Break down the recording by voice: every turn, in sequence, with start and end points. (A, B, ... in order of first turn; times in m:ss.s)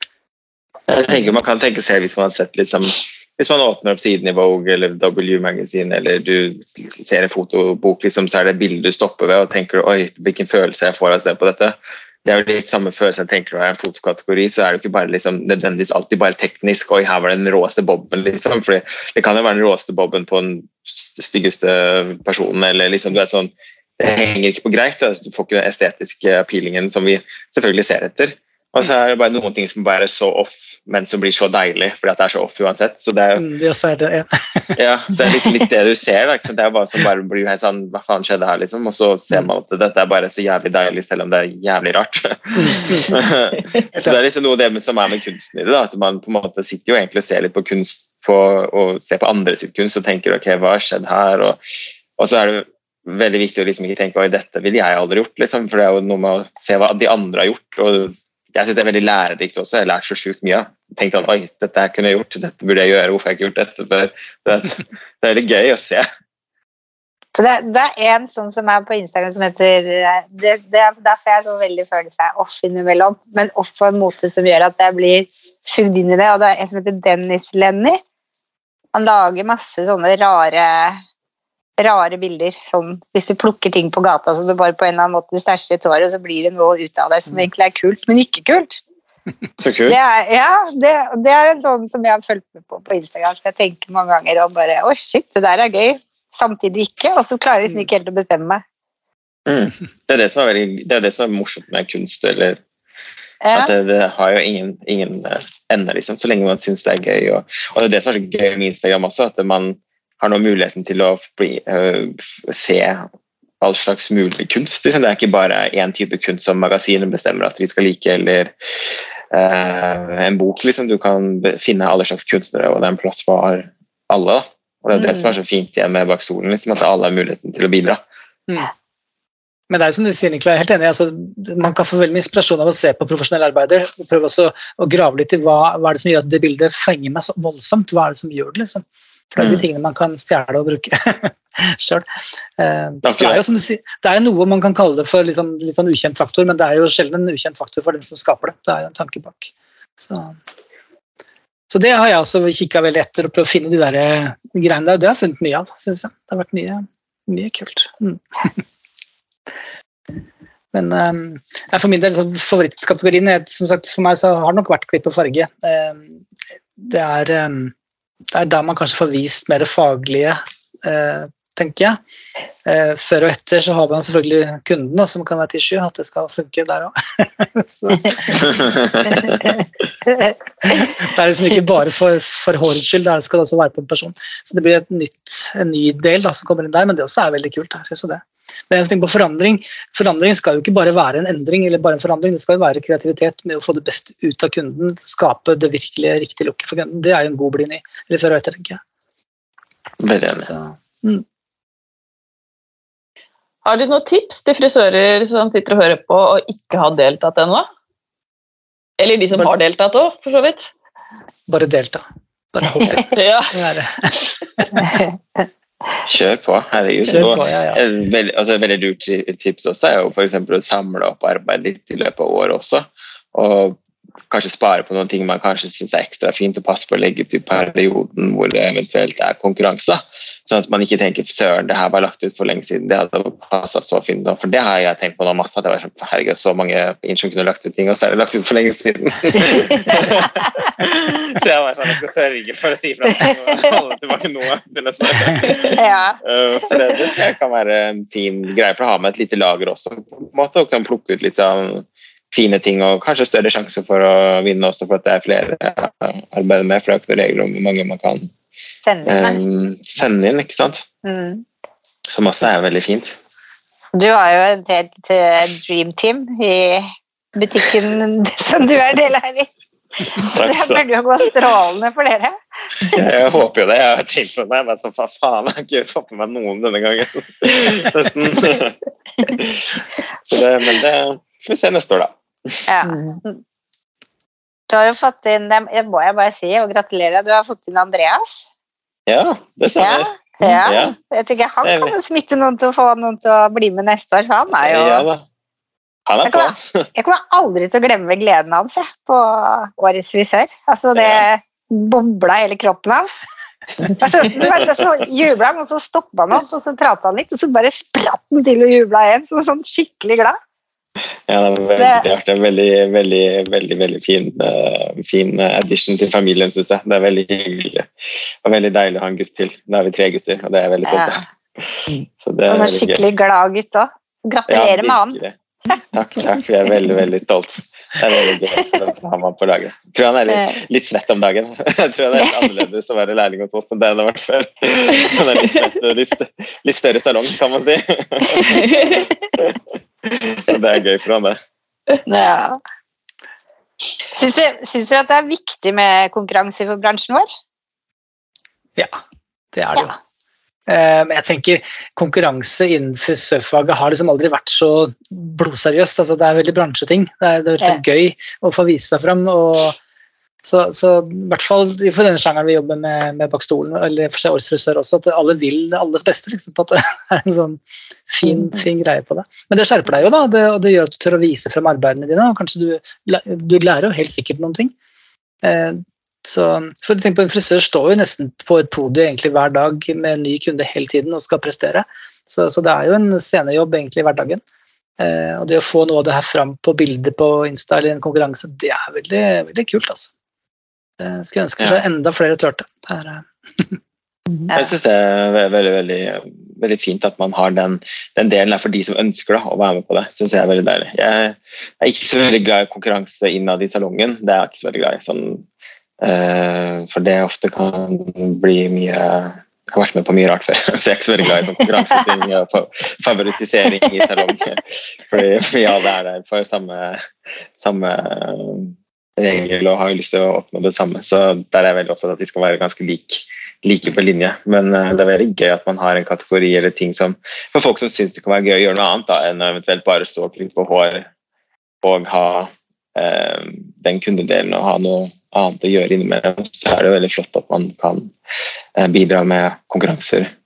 0:00.9-0:33.5 A
0:33.4-0:35.6 B
0:34.8-0:51.6 A
0:42.6-0:43.2 B
0:52.2-1:06.0 A
1:07.4-1:18.0 C
1:18.9-1:21.0 C
1:21.8-1:28.8 C
1:29.6-1:30.0 A
1:29.9-1:38.6 C
1:39.5-1:42.6 A
1:43.4-1:43.7 C
1:43.6-1:53.1 A
1:53.6-2:08.0 A
2:04.9-2:05.3 C
2:09.7-2:22.1 B
2:19.4-2:19.6 A
2:22.6-2:30.4 B
2:23.0-2:23.4 A
2:31.7-2:38.5 B
2:40.7-2:46.2 B
2:46.8-2:47.7 B
2:48.3-2:52.0 B
2:52.6-2:59.5 B
2:58.6-2:59.4 A
3:00.7-3:18.8 B
3:20.0-3:20.5 A
3:20.4-3:21.2 B
3:23.6-3:27.7 D
3:29.0-3:30.7 D
3:31.5-3:32.0 B
3:32.5-3:34.9 B
3:33.0-3:33.6 D
3:36.0-3:43.8 A
3:37.1-3:37.8 B
3:44.3-4:18.3 A
4:05.8-4:06.2 C
4:18.8-4:19.4 C
4:19.1-4:20.8 A
4:21.0-4:21.4 C
4:22.1-4:23.2 A
4:24.0-4:29.5 C
4:30.0-4:32.9 C
4:30.2-4:30.8 A
4:32.9-4:42.6 A
4:42.7-4:43.4 C
4:44.7-4:48.4 C
4:49.1-4:51.0 A
4:49.8-4:55.1 C
4:51.6-4:52.0 A
4:54.6-4:55.2 A
4:56.1-4:56.9 A
4:56.2-5:03.2 C
5:01.0-5:01.2 A
5:04.0-5:10.4 C
5:11.3-5:17.9 A
5:11.8-5:12.1 C
5:18.4-5:23.0 A
5:20.9-5:21.2 C
5:22.5-5:25.2 C
5:24.5-5:25.4 A
5:25.9-5:41.4 A
5:30.3-5:30.6 C
5:38.5-5:38.9 D
5:42.1-5:42.6 C
5:44.1-5:47.3 C
5:49.5-5:50.0 B
5:50.7-5:59.8 B
6:00.4-6:14.7 B
6:15.4-6:24.4 B
6:25.0-6:30.1 B
6:31.0-6:33.8 B
6:34.5-6:45.5 A
6:46.0-6:57.1 A
6:57.6-7:11.1 A
7:11.8-7:18.1 A
7:18.8-7:20.3 A